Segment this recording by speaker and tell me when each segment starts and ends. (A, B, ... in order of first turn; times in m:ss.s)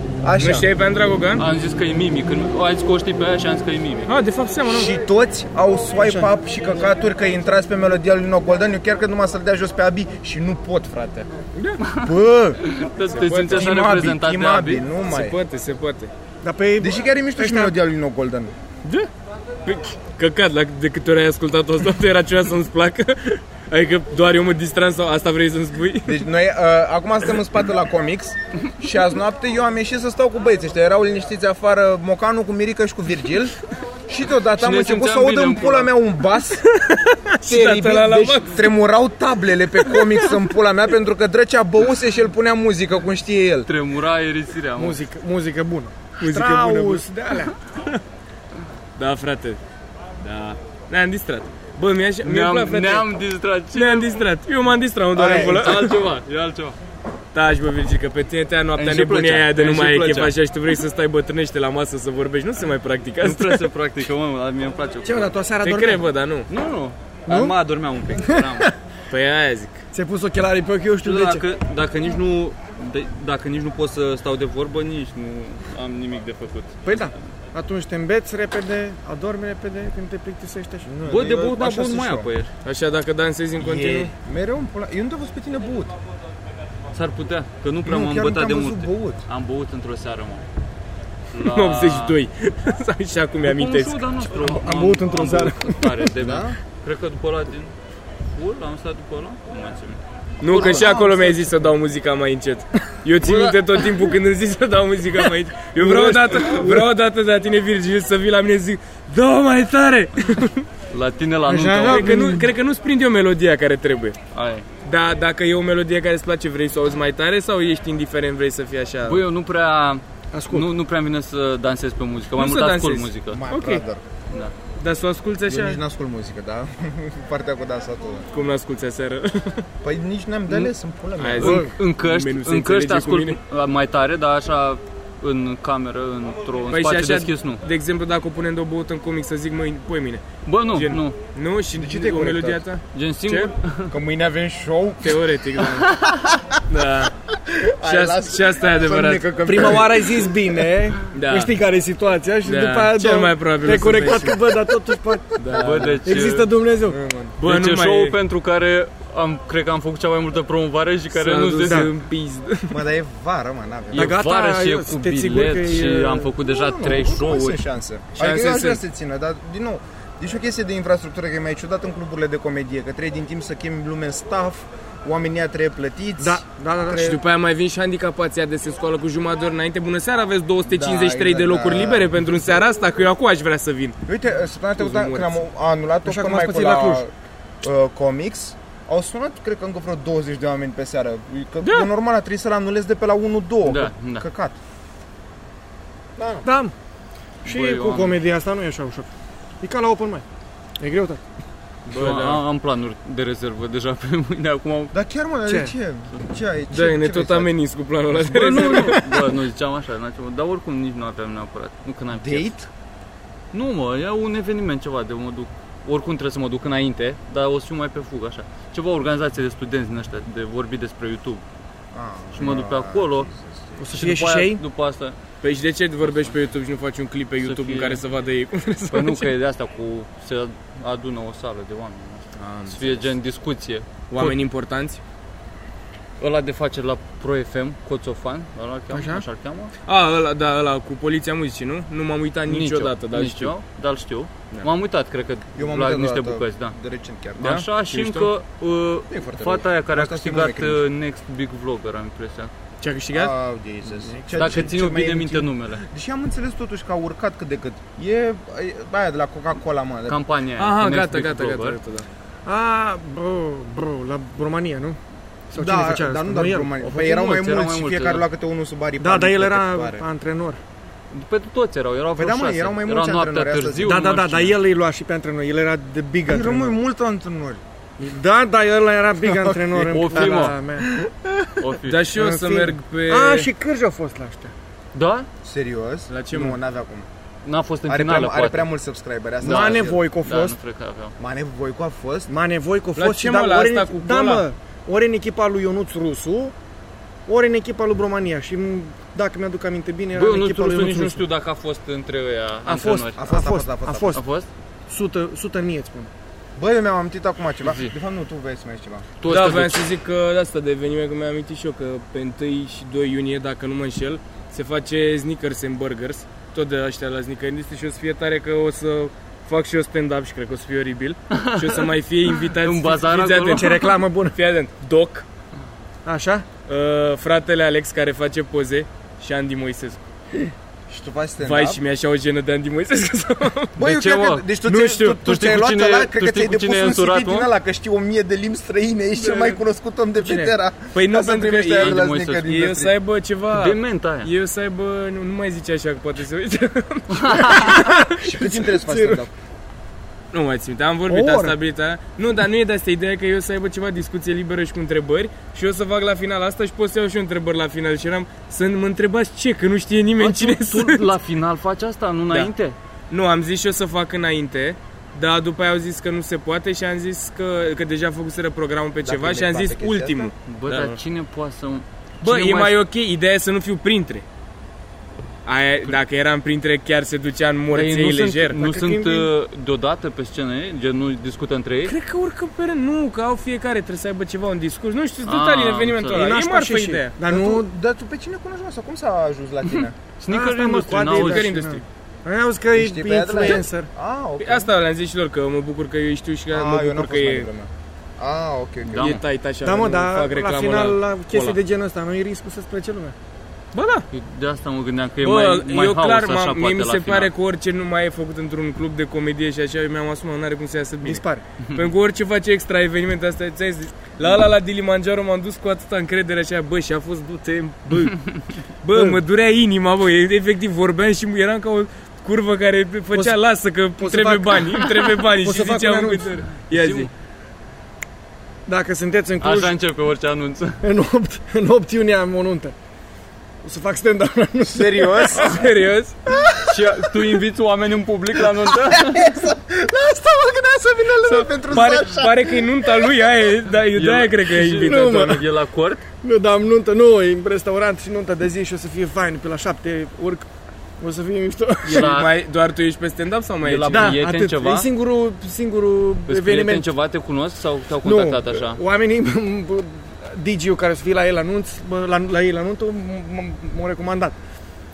0:00.2-0:00.7 A
0:00.4-0:01.4 B
0:01.4-0:04.1 C
0:04.1-0:04.9 B
0:04.7-0:11.6 A
0:06.0-0:06.3 D
0:11.8-0:14.8 C
0:12.0-0:12.6 D
0:13.1-0:13.7 B
0:13.2-0:15.4 A
0:15.1-0:16.1 B
0:16.4-0:17.7 D
0:16.8-0:18.5 A
0:19.6-0:26.2 B
0:26.0-0:33.6 A
0:34.1-0:36.6 A
0:34.6-0:35.9 C
0:36.7-0:38.7 B
0:37.4-0:43.7 A
0:43.7-0:45.0 C
0:44.8-0:47.5 D
0:46.2-0:47.1 B
0:49.0-0:49.6 B
0:50.2-0:53.1 B
0:52.2-0:54.2 C
0:53.7-0:56.0 B
0:55.2-0:55.7 D
0:55.3-0:56.8 C
0:57.3-1:03.7 B
0:58.8-1:00.4 C
1:03.2-1:05.4 C
1:05.0-1:06.0 D
1:05.6-1:06.5 B
1:06.5-1:08.7 C
1:07.3-1:07.6 D
1:08.2-1:08.7 D
1:09.1-1:09.8 B
1:09.9-1:11.5 D
1:11.0-1:17.1 C
1:16.8-1:20.9 D
1:20.9-1:22.3 A
1:21.1-1:22.5 C
1:22.6-1:24.1 B
1:23.6-1:26.0 A
1:26.9-1:30.4 C
1:27.8-1:29.2 A
1:31.3-1:32.2 C
1:31.4-1:34.0 B
1:33.4-1:37.7 C
1:34.4-1:36.0 D
1:36.2-1:36.6 A
1:38.4-1:41.0 C
1:40.4-1:50.7 B
1:40.6-1:41.4 D
1:43.2-1:43.7 C
1:45.8-1:46.9 D
1:50.9-1:52.3 C
1:51.5-1:52.5 D
1:51.9-1:54.2 B
1:54.3-1:54.7 C
1:54.8-1:59.2 B
1:59.0-2:03.4 C
2:00.3-2:00.7 D
2:02.4-2:03.8 B
2:03.3-2:04.0 A
2:04.8-2:05.8 B
2:05.5-2:08.3 A
2:08.3-2:09.7 B
2:09.8-2:11.7 A
2:11.2-2:13.4 B
2:11.4-2:17.6 C
2:11.4-2:11.7 D
2:16.7-2:23.5 B
2:20.4-2:21.2 C
2:21.8-2:22.6 A
2:22.9-2:24.0 C
2:23.9-2:25.2 A
2:25.0-2:26.0 B
2:26.3-2:26.6 A
2:26.7-2:27.1 B
2:27.4-2:30.5 A
2:27.8-2:29.8 B
2:29.5-2:37.0 D
2:31.1-2:31.6 B
2:32.4-2:34.5 B
2:35.4-2:36.0 B
2:35.5-2:36.5 C
2:36.9-2:37.3 A
2:37.4-2:38.2 B
2:37.4-2:42.0 C
2:41.1-2:42.8 B
2:41.6-2:41.9 D
2:42.7-2:44.2 A
2:43.9-2:47.6 C
2:43.9-2:46.3 D
2:46.4-2:56.4 A
2:48.2-2:48.8 B
2:56.2-2:57.2 D
2:56.9-3:04.0 B
3:00.6-3:02.1 A
3:04.1-3:14.6 A
3:04.8-3:05.4 B
3:06.0-3:07.0 D
3:11.6-3:11.9 B
3:13.6-3:14.2 C
3:16.2-3:16.5 A
3:16.4-3:16.7 D
3:17.4-3:19.1 D
3:17.4-3:18.2 C
3:19.6-3:20.2 D
3:20.8-3:21.2 D
3:21.9-3:22.4 B
3:21.9-3:24.9 C
3:24.9-3:27.5 A
3:25.5-3:25.7 D
3:26.7-3:29.3 B
3:28.1-3:32.6 C
3:32.2-3:32.7 A
3:33.5-3:41.4 C
3:41.9-3:43.6 A
3:42.3-3:43.3 C
3:43.8-3:44.6 D
3:43.9-3:45.2 C
3:45.4-3:49.3 B
3:47.4-3:48.0 C
3:48.9-3:54.4 C
3:52.4-3:53.1 A
3:54.1-3:55.0 B
3:56.2-3:59.7 C
3:58.9-3:59.2 D
3:59.9-4:03.5 B
4:02.5-4:06.8 C
4:05.6-4:07.6 A
4:07.4-4:12.5 C
4:07.4-4:08.3 B
4:09.1-4:10.8 A
4:12.8-4:13.3 B
4:13.1-4:20.2 A
4:14.3-4:15.8 C
4:20.1-4:21.8 C
4:20.6-4:22.1 B
4:22.5-4:25.0 D
4:25.5-4:26.7 D
4:25.5-4:30.0 A
4:26.8-4:28.2 C
4:29.0-4:30.6 D
4:31.1-4:34.6 C
4:32.2-4:34.0 A
4:33.8-4:36.8 D
4:36.3-4:37.6 A
4:38.0-4:40.9 D
4:39.3-4:41.6 A
4:39.9-4:40.6 C
4:41.6-4:42.1 C
4:41.8-4:43.5 B
4:42.1-4:44.5 D
4:44.9-4:45.3 C
4:45.4-4:47.1 A
4:46.1-4:46.6 B
4:47.4-4:48.7 C
4:47.9-4:50.0 A
4:49.4-4:51.2 C
4:49.4-4:50.6 D
4:51.2-4:52.3 A
4:52.3-4:56.5 D
4:53.0-4:54.4 B
4:57.3-5:01.2 D
5:00.2-5:03.2 C
5:02.7-5:04.2 D
5:03.2-5:04.2 A
5:04.1-5:04.5 C
5:04.9-5:06.1 D
5:06.6-5:09.1 A
5:07.6-5:07.9 C
5:09.2-5:09.8 C
5:09.3-5:25.2 B
5:21.3-5:23.9 C
5:23.5-5:24.4 D
5:26.0-5:26.5 D
5:26.7-5:30.0 B
5:30.9-5:31.8 A
5:31.4-5:33.8 B
5:33.8-5:42.9 A
5:33.8-5:34.5 C
5:34.7-5:35.2 B
5:35.2-5:37.5 C
5:39.2-5:39.6 B
5:40.2-5:40.5 D
5:40.9-5:48.0 B
5:41.7-5:42.5 C
5:43.5-5:44.3 C
5:47.2-5:47.6 C
5:47.5-5:49.2 D
5:48.1-5:49.3 A
5:50.3-6:01.1 B
5:51.1-5:51.6 D
6:00.2-6:02.8 C
6:03.1-6:11.0 B
6:09.0-6:10.3 A
6:10.5-6:12.8 C
6:12.2-6:14.2 B
6:15.4-6:18.6 B
6:17.7-6:22.0 C
6:18.6-6:19.3 D
6:21.9-6:27.2 B
6:25.2-6:26.4 C
6:26.1-6:27.7 D
6:27.2-6:30.0 A
6:30.2-6:31.6 C
6:30.3-6:33.9 D
6:31.1-6:31.8 B
6:32.8-6:34.7 A
6:34.4-6:37.5 B
6:36.5-6:39.2 A
6:38.9-6:39.2 C
6:39.0-6:41.6 B
6:39.6-6:43.2 D
6:43.7-6:44.1 B
6:44.1-6:47.3 C
6:45.2-6:51.2 B
6:51.0-6:51.4 D
6:51.6-6:51.9 C
6:51.7-7:07.1 B
6:58.9-6:59.2 D
7:03.1-7:03.4 D
7:04.0-7:04.8 D
7:05.4-7:06.4 D
7:06.6-7:07.1 C
7:08.7-7:09.7 D
7:09.4-7:10.8 C
7:10.8-7:12.8 D
7:13.6-7:15.5 D
7:14.7-7:15.6 A
7:15.3-7:16.2 B
7:16.6-7:19.3 C
7:18.7-7:23.1 A
7:21.2-7:25.4 B
7:23.9-7:26.0 C
7:24.8-7:25.4 D
7:26.2-7:30.5 D
7:31.0-7:32.1 D
7:31.9-7:32.4 C
7:31.9-7:34.2 B
7:33.6-7:34.9 C
7:33.9-7:36.9 D
7:36.3-7:38.8 C
7:38.0-7:44.4 D